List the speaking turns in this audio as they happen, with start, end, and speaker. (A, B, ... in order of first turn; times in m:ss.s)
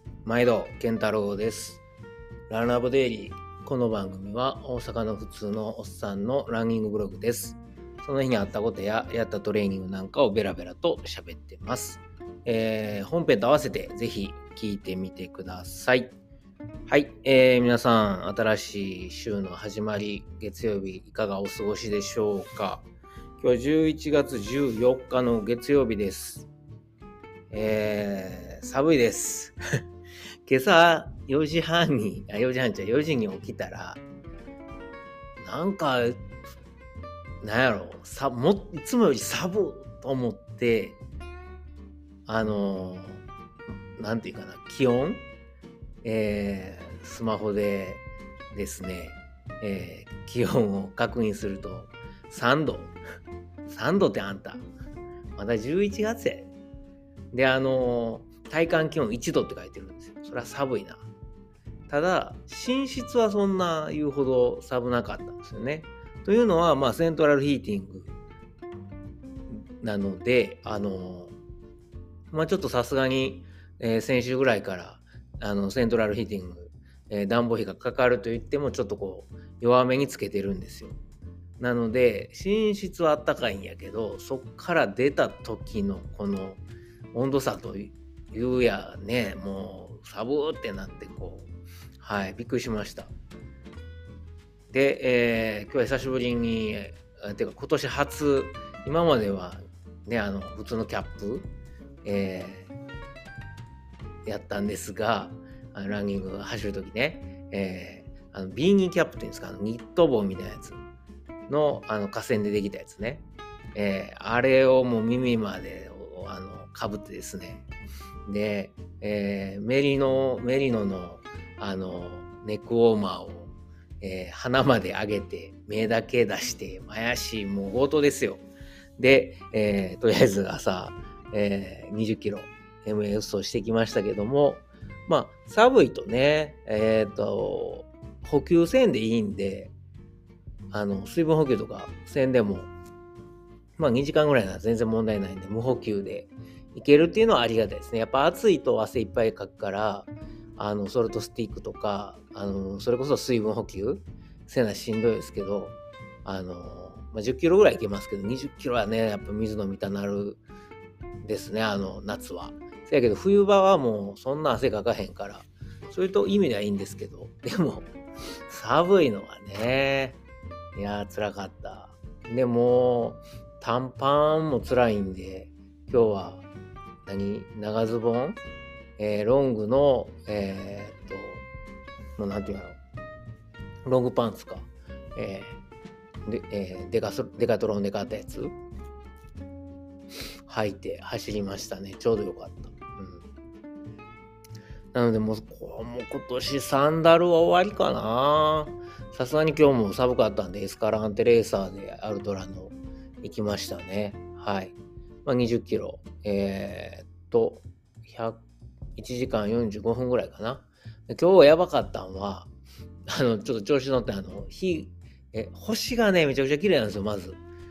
0:00.2-0:01.8 A
0:02.5-0:16.2 A
0:16.9-0:22.8 A
0:23.4-0:26.5 A
0:27.5-0:29.6 A
0:30.4-0:34.0 A
0:35.4-0:36.2 A
0:37.4-0:41.0 A
0:42.2-0:43.2 A
0:43.9-0:45.2 A
0:46.0-0:53.0 A
0:53.7-0:54.7 A
0:55.3-0:56.5 A
0:57.3-1:01.1 A
1:01.9-1:08.2 A
1:09.5-1:11.3 A
1:12.3-1:21.0 A
1:21.6-1:26.6 A
1:27.1-1:33.1 A
1:34.7-1:41.5 A
1:42.0-1:42.7 A
1:44.2-1:50.8 A
1:51.5-1:57.6 A
1:58.3-2:08.4 A
2:09.0-2:19.7 A
2:20.7-2:22.7 A
2:23.8-2:40.4 A
2:41.2-2:47.9 A
2:48.5-2:50.2 A
2:50.7-2:56.4 A
2:57.0-2:58.4 A
2:59.0-3:01.4 A
3:02.2-3:02.8 A
3:03.8-3:05.6 A
3:06.2-3:08.6 A
3:10.4-3:13.3 A
3:14.9-3:28.4 A
3:29.0-3:32.5 A
3:33.1-3:37.4 A